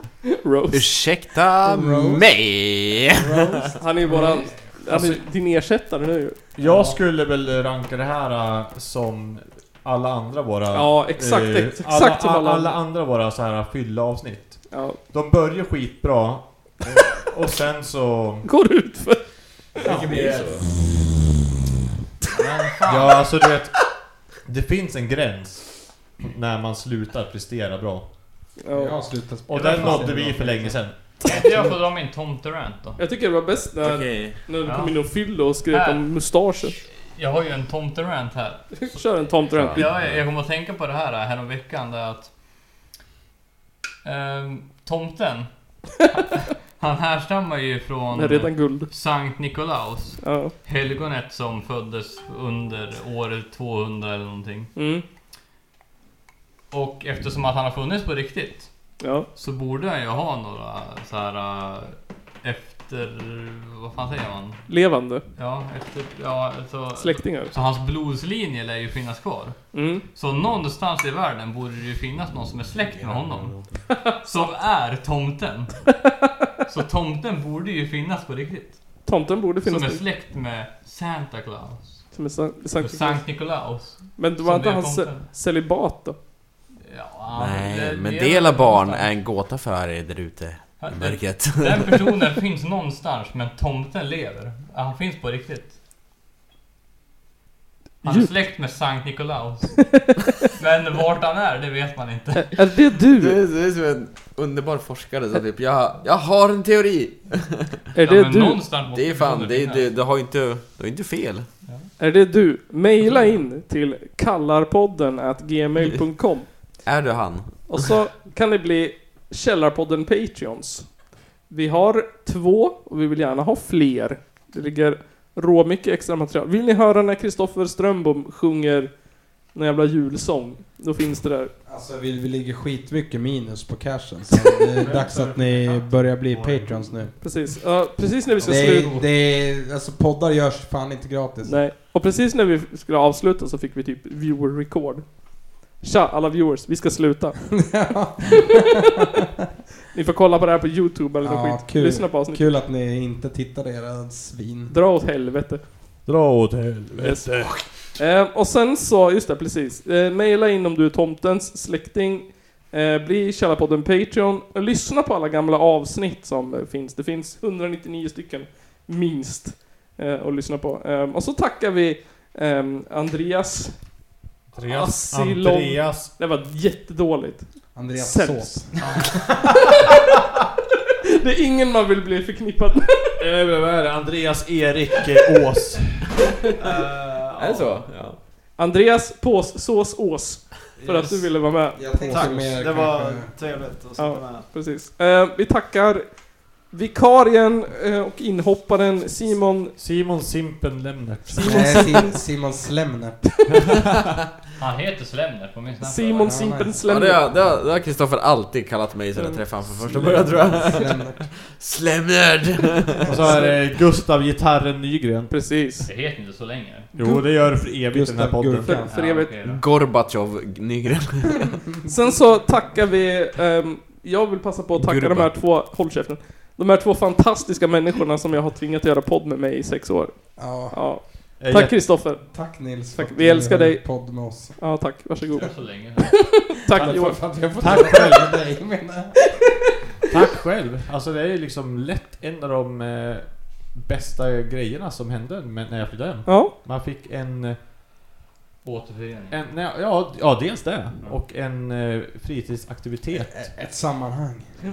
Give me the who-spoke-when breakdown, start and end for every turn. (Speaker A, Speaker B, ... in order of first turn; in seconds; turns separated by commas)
Speaker A: 0.4-1.1, Speaker B: 0.7-3.6, Speaker C: 1.6-2.6, Speaker C: 3.2-3.8, Speaker A: 3.8-6.4, Speaker D: 4.1-5.2, Speaker D: 6.6-18.5, Speaker A: 10.7-12.8, Speaker A: 14.7-15.0, Speaker A: 18.4-19.3, Speaker B: 19.8-20.7, Speaker D: 19.8-20.5, Speaker E: 19.9-20.4, Speaker D: 22.3-23.8, Speaker F: 22.4-23.3, Speaker D: 24.4-28.1, Speaker A: 28.6-29.0, Speaker C: 28.7-31.6, Speaker D: 29.5-31.6, Speaker A: 29.5-29.9, Speaker F: 31.2-33.0, Speaker A: 33.0-36.8, Speaker B: 33.8-34.4, Speaker F: 34.6-36.3, Speaker F: 36.9-42.3, Speaker A: 38.9-39.9, Speaker B: 39.5-40.2, Speaker F: 44.0-45.5, Speaker F: 46.1-54.7, Speaker A: 48.1-48.9, Speaker A: 50.2-50.5, Speaker A: 54.8-55.0, Speaker F: 56.7-58.7, Speaker A: 59.0-59.3, Speaker F: 59.4-64.7, Speaker A: 64.7-65.2, Speaker F: 65.4-75.9, Speaker A: 67.0-67.5, Speaker A: 69.7-70.0, Speaker B: 73.0-73.3, Speaker F: 76.7-79.0, Speaker A: 79.1-80.0, Speaker F: 79.6-82.1, Speaker A: 82.1-83.6, Speaker F: 82.8-85.3, Speaker A: 84.2-86.2, Speaker F: 86.8-89.1, Speaker B: 87.3-92.0, Speaker F: 90.8-95.8, Speaker A: 98.0-98.4, Speaker F: 98.0-102.7, Speaker A: 102.5-103.4, Speaker B: 103.1-107.8, Speaker A: 108.0-108.6, Speaker F: 108.0-109.9, Speaker B: 108.9-111.5, Speaker A: 112.0-116.8, Speaker F: 113.0-113.4, Speaker B: 116.8-117.9, Speaker A: 117.7-131.5, Speaker C: 131.7-137.2, Speaker D: 134.8-137.3, Speaker A: 137.2-139.0, Speaker D: 138.4-139.0, Speaker C: 138.4-141.6, Speaker A: 141.4-147.5, Speaker C: 147.5-148.7, Speaker A: 149.9-152.4, Speaker C: 151.2-154.7, Speaker A: 154.7-155.7, Speaker D: 156.1-157.7, Speaker A: 157.0-173.8, Speaker D: 174.5-176.1, Speaker A: 174.7-178.8, Speaker C: 177.8-179.0, Speaker A: 181.2-183.2, Speaker D: 183.2-186.2, Speaker E: 186.6-187.9, Speaker B: 187.4-188.2, Speaker A: 188.6-191.8, Speaker E: 190.8-191.5, Speaker C: 191.8-193.3, Speaker D: 192.0-192.7, Speaker E: 192.0-194.5, Speaker A: 194.0-199.8, Speaker D: 199.8-202.0, Speaker A: 201.3-202.2, Speaker C: 201.4-203.5, Speaker F: 204.6-206.4, Speaker A: 205.8-207.3, Speaker C: 206.2-206.7, Speaker B: 206.8-213.4, Speaker D: 209.9-210.4, Speaker C: 210.7-211.2, Speaker D: 213.1-215.6, Speaker A: 213.2-213.6, Speaker A: 215.3-215.9, Speaker F: 215.8-216.9, Speaker D: 216.9-218.8, Speaker C: 217.1-218.9, Speaker A: 218.6-219.3, Speaker F: 218.9-219.6, Speaker B: 219.4-221.5, Speaker A: 221.9-237.3, Speaker B: 224.8-225.3, Speaker C: 230.4-231.0, Speaker D: 231.4-232.1, Speaker C: 232.2-234.6, Speaker F: 235.4-236.6, Speaker C: 236.7-239.4, Speaker D: 236.8-238.4, Speaker D: 240.1-247.6, Speaker A: 246.2-246.5, Speaker F: 248.6-249.4, Speaker D: 249.3-253.5, Speaker C: 253.1-254.6